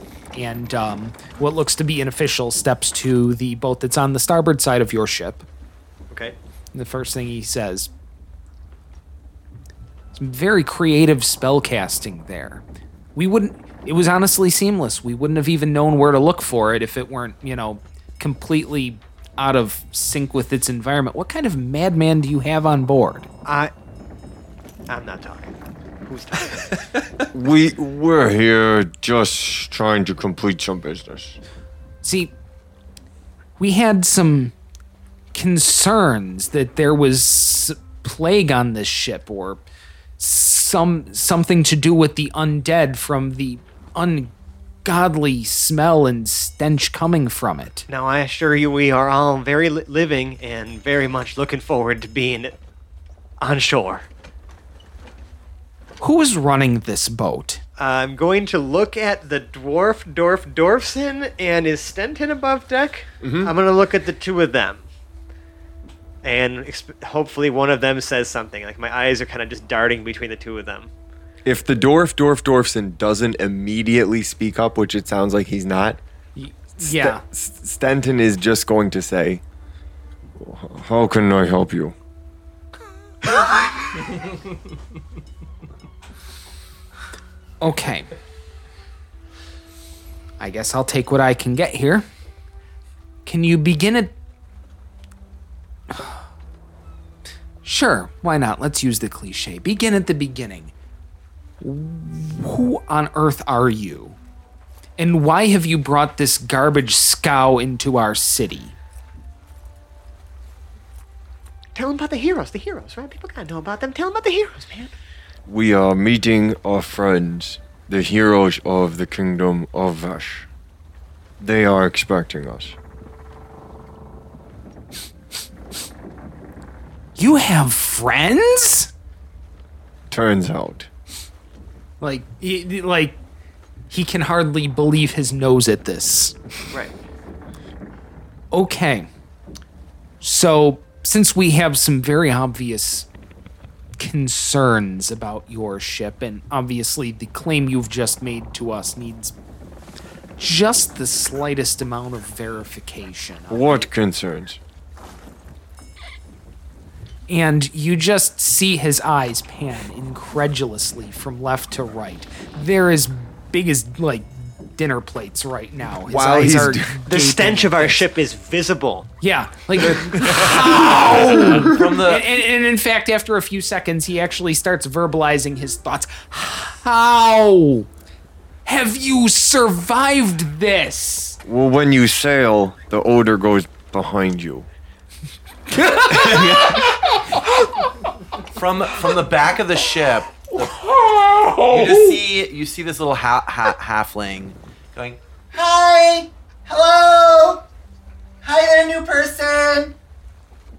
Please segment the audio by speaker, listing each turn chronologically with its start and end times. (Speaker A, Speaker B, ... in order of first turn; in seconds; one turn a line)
Speaker A: 0.3-5.5
Speaker B: 6.1-6.4
Speaker A: 6.7-7.9
Speaker A: 10.2-12.6
Speaker A: 13.2-23.3
Speaker B: 23.5-23.7
Speaker B: 24.9-26.8
Speaker C: 27.3-31.4
Speaker A: 32.0-32.3
Speaker A: 33.6-34.5
Speaker A: 35.3-39.6
Speaker A: 40.2-44.3
Speaker A: 44.8-47.9
Speaker B: 47.9-52.6
Speaker B: 53.4-54.1
Speaker A: 56.0-57.6
Speaker B: 57.8-64.9
Speaker C: 63.2-63.5
Speaker B: 66.2-70.9
Speaker C: 71.5-76.0
Speaker A: 76.3-77.2
Speaker C: 76.8-79.4
Speaker C: 80.4-82.0
Speaker A: 87.6-88.1
Speaker A: 90.4-92.1
Speaker A: 93.2-94.2
Speaker A: 95.9-96.2
Speaker A: 97.6-100.7
Speaker A: 101.6-104.2
Speaker A: 105.0-108.8
Speaker B: 111.8-114.9
Speaker C: 115.5-120.5
Speaker C: 121.4-122.8
Speaker A: 127.2-128.9
Speaker C: 130.1-130.9
Speaker A: 132.0-133.2
Speaker A: 133.9-136.4
Speaker A: 138.5-139.1
Speaker A: 140.2-143.1
Speaker A: 144.0-149.3
Speaker A: 150.4-153.9
Speaker C: 153.5-154.6
Speaker A: 157.3-168.1
Speaker C: 166.1-167.0
Speaker B: 167.1-169.1
Speaker A: 169.2-177.9
Speaker C: 170.1-171.5
Speaker D: 170.4-172.3
Speaker A: 178.7-181.4
Speaker C: 181.4-184.7
Speaker A: 185.9-186.6
Speaker D: 186.0-186.9
Speaker D: 188.5-191.0
Speaker D: 191.6-197.7
Speaker D: 198.4-199.9